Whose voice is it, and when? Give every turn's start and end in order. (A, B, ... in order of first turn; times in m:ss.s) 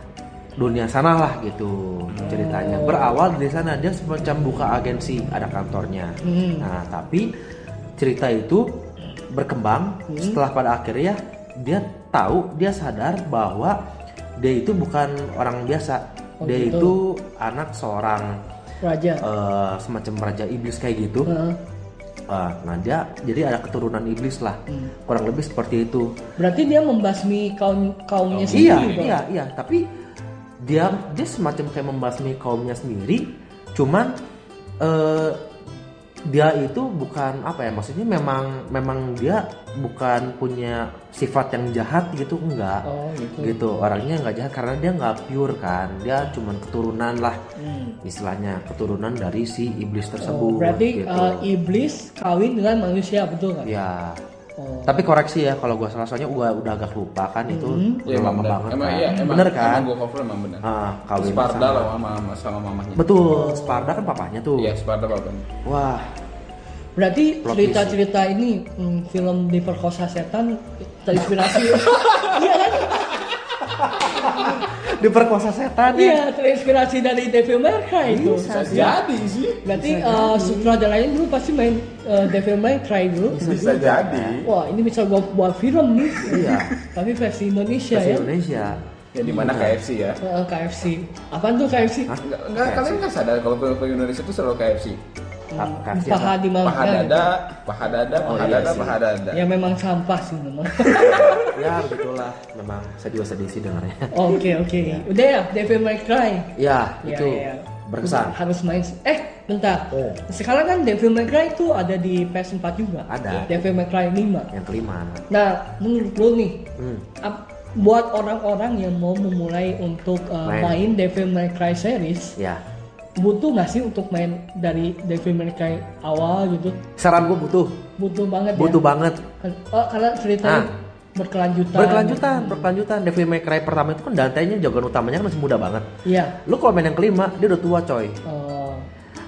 0:00.6-0:07.3 A
0:02.2-0:03.2 B
0:06.2-0:06.7 B
0:08.0-0:08.8 A
0:09.3-0:13.8 A
0:10.1-0:10.4 B
0:14.4-0:18.4 A
0:16.4-0:16.9 B
0:18.8-0:19.2 B
0:19.2-0:21.3 A
0:21.2-0:21.6 B
0:22.3-0:26.1 A
0:26.4-0:29.2 B
0:28.3-0:29.1 C
0:28.5-0:29.9 A
0:30.6-0:34.2 A
0:34.8-0:35.4 A
0:36.2-0:42.8 A
0:42.8-0:43.6 B
0:43.4-0:47.4 A
0:47.6-0:48.0 B
0:48.0-0:51.5 A
0:50.2-0:53.7 B
0:53.6-0:54.2 A
0:54.6-0:55.0 B
0:54.8-0:59.9 A
0:57.5-0:58.0 B
0:58.0-1:03.1 C
1:00.6-1:01.9 A
1:03.0-1:04.7 A
1:03.2-1:04.2 B
1:04.6-1:05.4 C
1:05.6-1:06.1 A
1:07.0-1:13.2 B
1:07.4-1:08.0 A
1:11.8-1:12.2 C
1:13.6-1:16.2 A
1:15.9-1:19.0 B
1:18.0-1:19.0 A
1:18.5-1:19.6 C
1:19.6-1:23.4 B
1:19.7-1:20.8 A
1:23.3-1:24.4 A
1:23.4-1:24.5 C
1:24.4-1:28.8 B
1:26.2-1:26.7 C
1:26.2-1:26.7 A
1:27.9-1:29.8 A
1:29.1-1:30.2 C
1:30.2-1:32.1 B
1:32.1-1:33.0 A
1:32.2-1:35.0 C
1:35.5-1:37.3 B
1:35.6-1:36.4 A
1:36.6-1:39.4 C
1:37.9-1:41.5 B
1:38.2-1:39.0 A
1:40.8-1:41.4 C
1:41.4-1:45.1 A
1:44.1-1:54.5 B
1:46.6-1:48.4 A
1:49.9-1:50.2 A
1:53.1-1:53.5 A
1:54.5-1:55.2 A
1:55.3-1:56.7 B
1:56.8-1:57.0 A
1:57.2-2:02.4 B
2:00.4-2:00.8 A
2:02.4-2:02.6 A
2:03.2-2:06.8 B
2:07.0-2:07.8 A
2:08.0-2:08.8 B
2:08.5-2:09.2 A
2:09.4-2:12.7 B
2:10.4-2:10.7 A
2:11.7-2:15.9 A
2:16.0-2:16.4 B
2:16.4-2:18.2 A
2:18.2-2:18.8 B